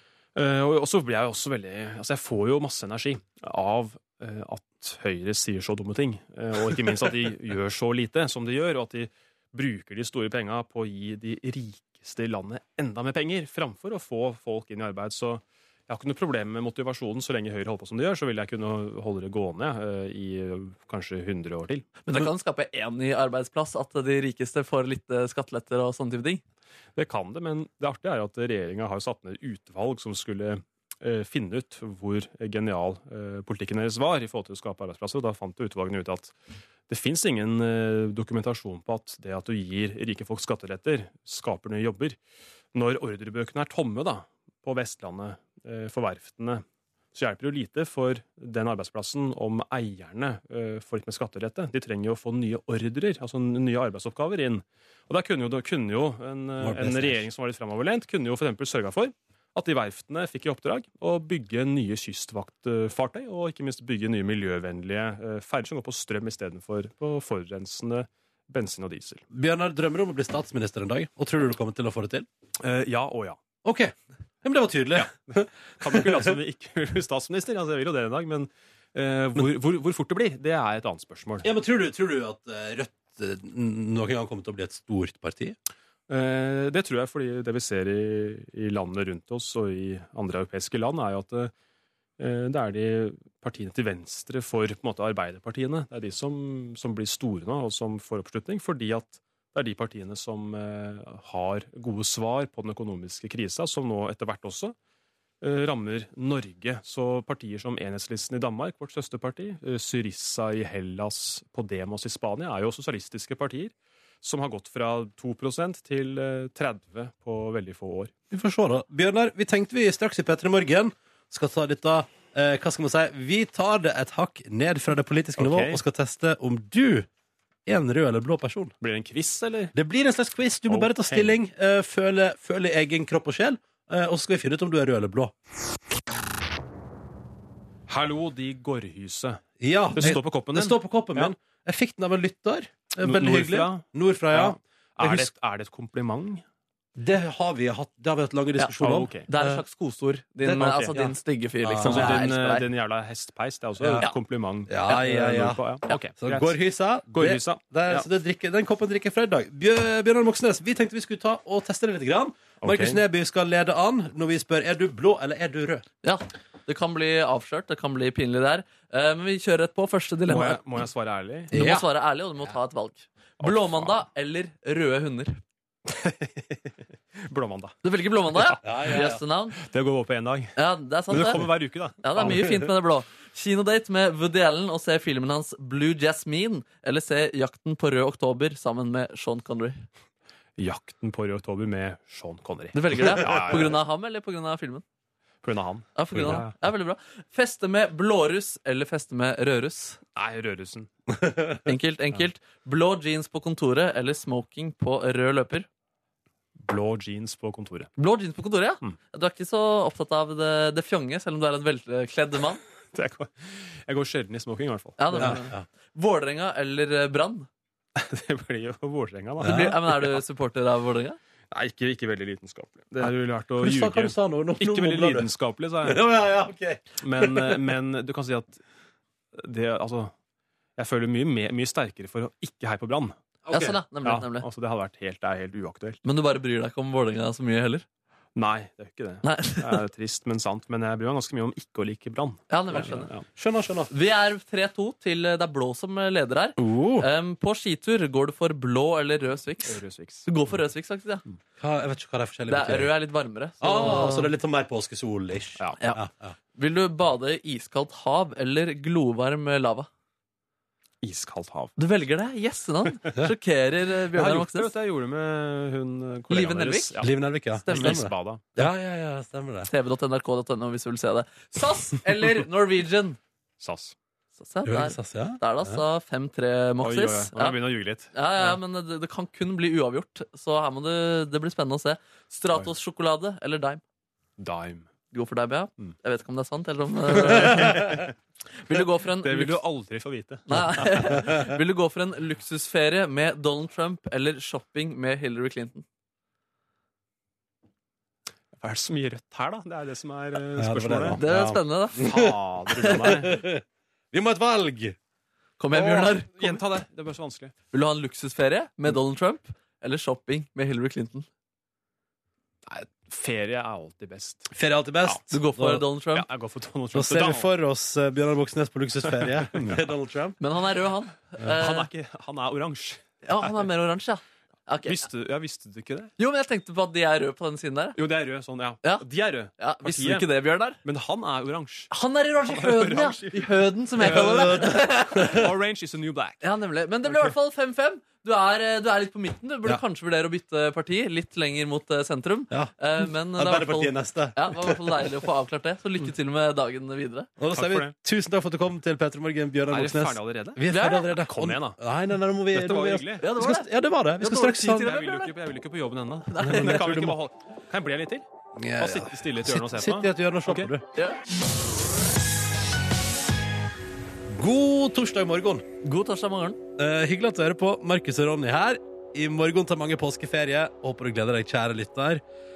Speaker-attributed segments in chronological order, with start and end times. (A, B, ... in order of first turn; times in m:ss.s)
0:00.3-0:21.9 A
0:22.0-0:26.4 B
0:26.9-0:36.3 A
0:36.9-0:42.2 A
0:42.7-1:09.2 A
0:56.6-0:57.2 C
1:09.3-1:12.3 C
1:12.6-1:13.4 A
1:13.6-1:16.2 C
1:14.9-1:21.5 A
1:21.4-1:25.6 C
1:26.1-1:31.5 A
1:32.2-1:44.8 A
1:45.4-1:58.1 A
1:58.3-2:07.1 C
2:05.4-2:05.8 A
2:07.6-2:08.7 C
2:08.8-2:09.7 A
2:09.7-2:15.3 C
2:10.7-2:11.4 A
2:17.9-2:21.3 A
2:19.6-2:25.3 C
2:23.0-2:26.4 A
2:27.0-2:29.6 C
2:28.8-2:29.3 A
2:29.3-2:32.7 B
2:30.4-2:38.1 A
2:31.8-2:32.2 C
2:33.8-2:34.1 C
2:34.7-2:35.6 C
2:36.2-2:45.8 C
2:42.6-2:43.0 A
2:46.0-2:50.6 B
2:50.3-2:51.5 A
2:51.5-2:55.4 B
2:51.5-2:51.8 C
2:53.4-2:54.0 A
2:55.8-2:56.7 A
2:57.2-2:57.8 A
2:57.8-2:59.6 B
2:58.3-3:00.5 A
2:58.6-2:59.2 C
3:00.6-3:01.5 B
3:01.1-3:02.4 A
3:02.0-3:09.8 B
3:10.6-3:13.8 A
3:12.7-3:14.8 B
3:15.4-3:16.5 A
3:15.9-3:20.0 B
3:20.1-3:20.9 A
3:21.6-3:25.7 B
3:26.6-3:27.9 A
3:28.0-3:32.6 B
3:32.9-3:35.4 A
3:35.0-3:37.5 B
3:35.2-3:35.6 C
3:38.0-3:40.2 A
3:39.4-3:41.2 B
3:39.4-3:39.7 C
3:41.5-3:46.0 A
3:43.6-3:45.3 C
3:45.8-3:47.6 C
3:47.0-3:48.6 A
3:49.3-3:50.1 A
3:50.8-3:53.2 A
3:53.4-3:53.8 C
3:53.5-3:54.5 B
3:54.0-3:56.0 A
3:56.0-3:57.8 B
3:58.3-4:03.3 A
3:59.2-3:59.8 B
4:02.5-4:03.1 B
4:03.4-4:03.9 C
4:03.9-4:11.2 B
4:06.6-4:07.0 C
4:09.6-4:10.3 A
4:11.6-4:12.9 C
4:12.5-4:14.3 B
4:13.6-4:16.3 C
4:16.5-4:19.9 B
4:21.0-4:21.7 A
4:21.8-4:24.7 B
4:24.1-4:28.7 A
4:26.3-4:27.0 B
4:27.0-4:29.7 C
4:27.7-4:28.0 B
4:29.7-4:33.2 B
4:33.6-4:33.9 A
4:34.4-4:37.6 B
4:34.6-4:35.8 C
4:36.8-4:38.6 A
4:38.1-4:43.8 B
4:44.4-4:44.9 A
4:45.1-4:47.9 B
4:47.1-4:48.1 A
4:48.6-4:49.6 B
4:48.7-4:51.5 A
4:50.5-4:55.8 B
4:58.5-5:01.2 A
5:00.6-5:02.2 C
5:01.2-5:02.2 B
5:01.9-5:03.5 A
5:02.8-5:05.0 C
5:02.8-5:03.1 B
5:05.6-5:06.6 B
5:05.7-5:07.5 A
5:07.7-5:11.3 B
5:12.6-5:14.5 A
5:14.5-5:15.8 C
5:15.3-5:16.3 B
5:16.1-5:17.5 A
5:16.9-5:20.4 C
5:19.2-5:19.8 A
5:20.4-5:21.9 B
5:21.5-5:23.0 A
5:23.2-5:25.1 B
5:24.8-5:26.1 A
5:26.2-5:28.0 B
5:28.0-5:31.9 A
5:29.6-5:30.8 B
5:31.9-5:35.4 B
5:32.5-5:36.4 A
5:34.1-5:35.4 C
5:36.4-5:47.3 B
5:42.5-5:45.0 C
5:47.4-5:55.0 C
5:47.5-5:47.9 A
5:49.7-5:50.6 A
5:50.7-5:51.2 B
5:51.2-5:51.8 A
5:52.5-5:53.3 A
5:53.2-5:53.7 B
5:54.2-5:55.3 B
5:54.3-5:58.3 A
5:56.3-5:57.0 B
5:56.4-5:57.1 C
5:58.6-6:00.8 C
5:58.8-6:00.7 A
6:04.3-6:05.6 C
6:05.8-6:06.6 B
6:06.8-6:12.2 C